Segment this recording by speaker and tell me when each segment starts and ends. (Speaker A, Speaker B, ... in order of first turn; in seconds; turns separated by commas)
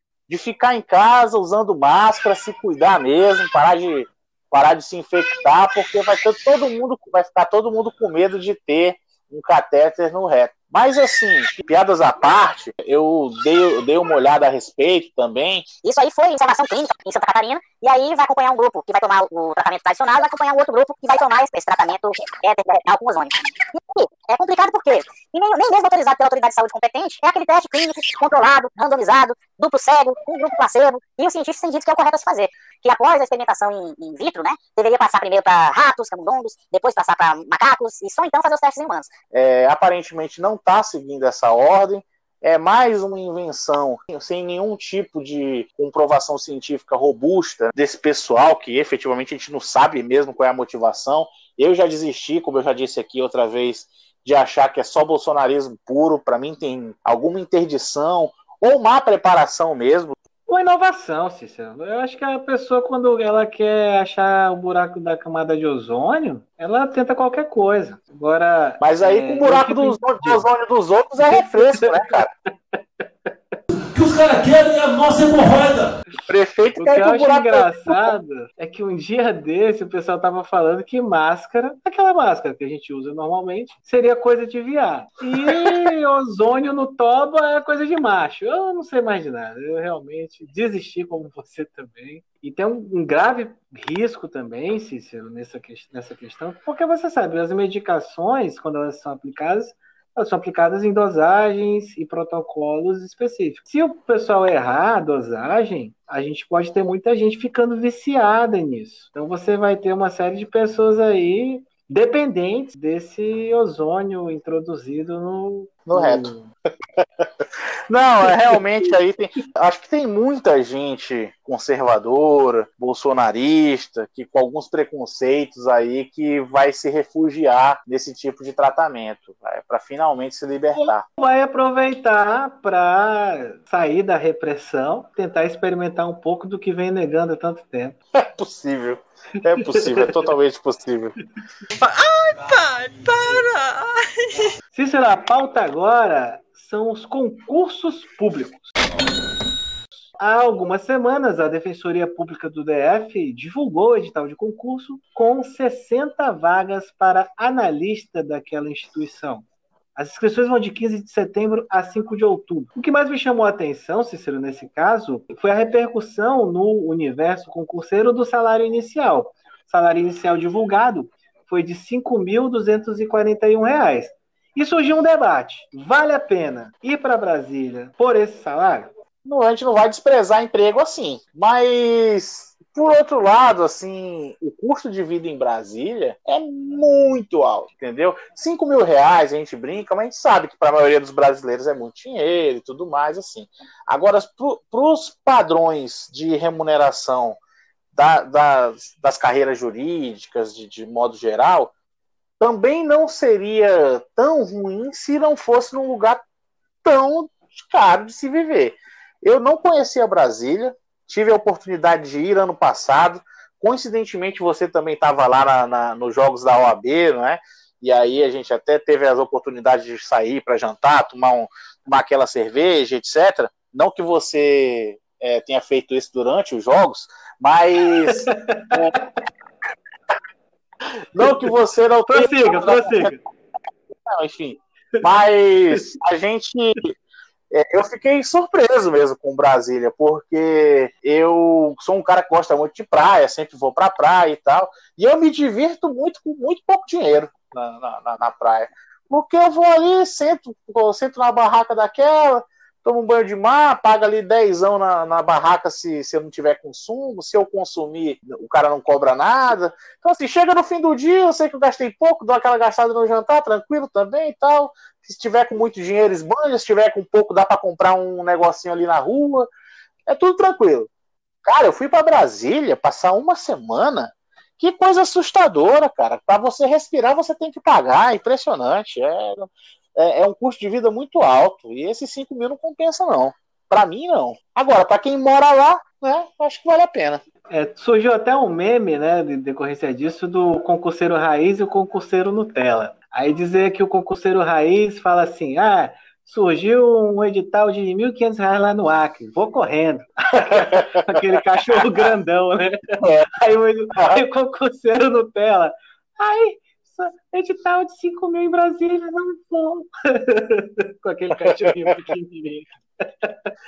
Speaker A: 0.3-15.7, Speaker B: 15.8-39.1, Speaker A: 39.3-60.2, Speaker C: 60.5-70.4, Speaker A: 68.8-72.3, Speaker C: 71.3-72.1, Speaker D: 73.9-75.9, Speaker A: 76.3-78.1, Speaker C: 76.8-116.5, Speaker A: 85.3-85.8, Speaker A: 115.9-116.3, Speaker A: 117.9-131.0, Speaker C: 118.2-118.6, Speaker C: 130.7-138.0, Speaker A: 138.2-141.2, Speaker C: 139.6-140.1, Speaker E: 141.8-144.0, Speaker C: 144.7-148.7, Speaker C: 150.2-159.4, Speaker C: 160.0-178.9, Speaker A: 179.2-197.4, Speaker A: 197.9-201.7, Speaker A: 202.4-206.2, Speaker A: 206.8-229.0, Speaker C: 228.1-229.0, Speaker A: 231.1-233.2, Speaker C: 231.2-231.5, Speaker C: 232.1-233.2, Speaker A: 234.1-236.9, Speaker A: 237.5-269.5, Speaker A: 270.1-270.9, Speaker A: 271.4-287.2, Speaker C: 287.5-313.5, Speaker A: 300.4-301.2, Speaker A: 303.0-303.3, Speaker A: 311.4-311.9